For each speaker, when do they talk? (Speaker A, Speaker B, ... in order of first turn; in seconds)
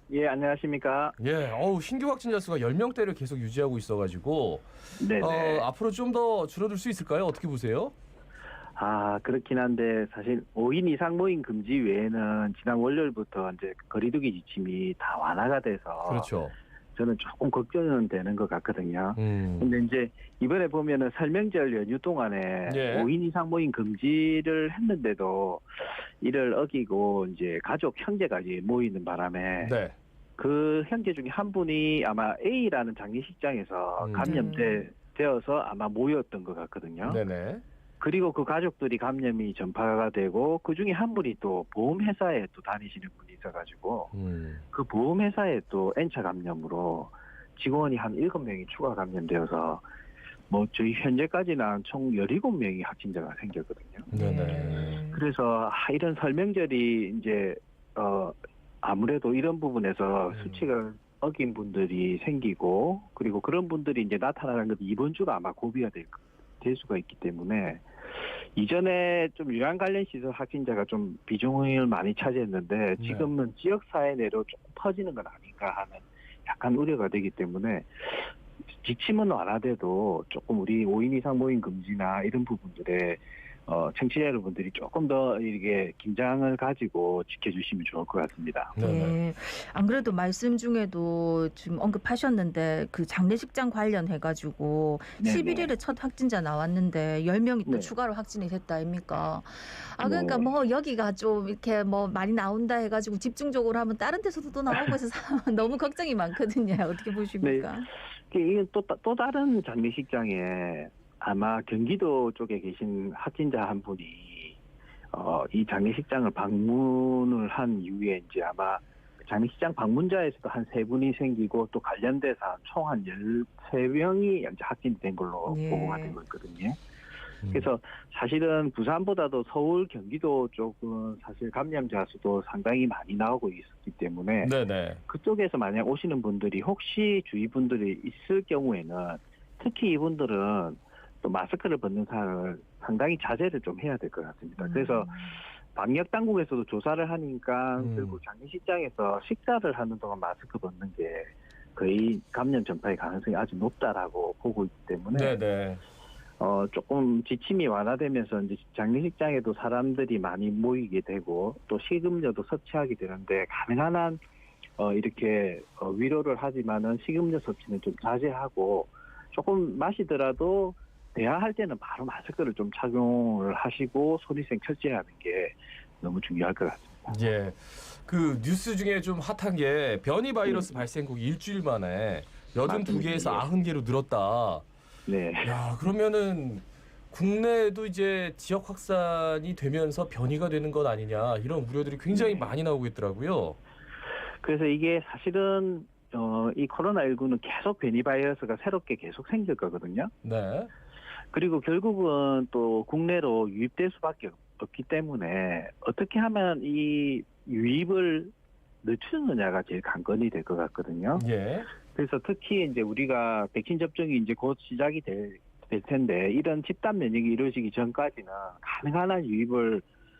Speaker A: 0.1-1.1, 5.0-5.7, 8.8-16.3, 16.9-29.7, 30.4-37.2, 38.0-44.1, 44.7-49.8, 50.5-54.1, 55.1-67.9, 68.5-88.7, 95.2-95.7, 97.7-97.9, 100.0-100.5, 107.4-107.7, 108.3-114.6, 115.1-126.8, 127.5-134.5, 135.1-145.2, 145.7-155.3, 156.4-164.2, 164.8-177.2, 180.4-180.8, 182.6-183.5, 185.1-185.6, 192.1-192.5, 194.4-200.1, 201.3-211.2, 211.9-219.8
Speaker B: 1.2-7.9, 16.1-16.5, 19.1-19.7, 22.7-23.1, 29.6-30.0, 34.0-34.4, 37.0-37.6, 44.1-44.6, 54.1-55.0, 60.3-60.6, 73.0-73.3, 88.8-89.2, 127.4-127.7, 134.4-135.0, 147.8-148.2, 155.1-155.8, 177.1-184.6, 185.4-193.6, 200.2-200.7, 211.1-211.7
Speaker C: 34.2-34.8, 54.1-55.2, 88.8-107.9, 125.4-126.1, 144.6-145.4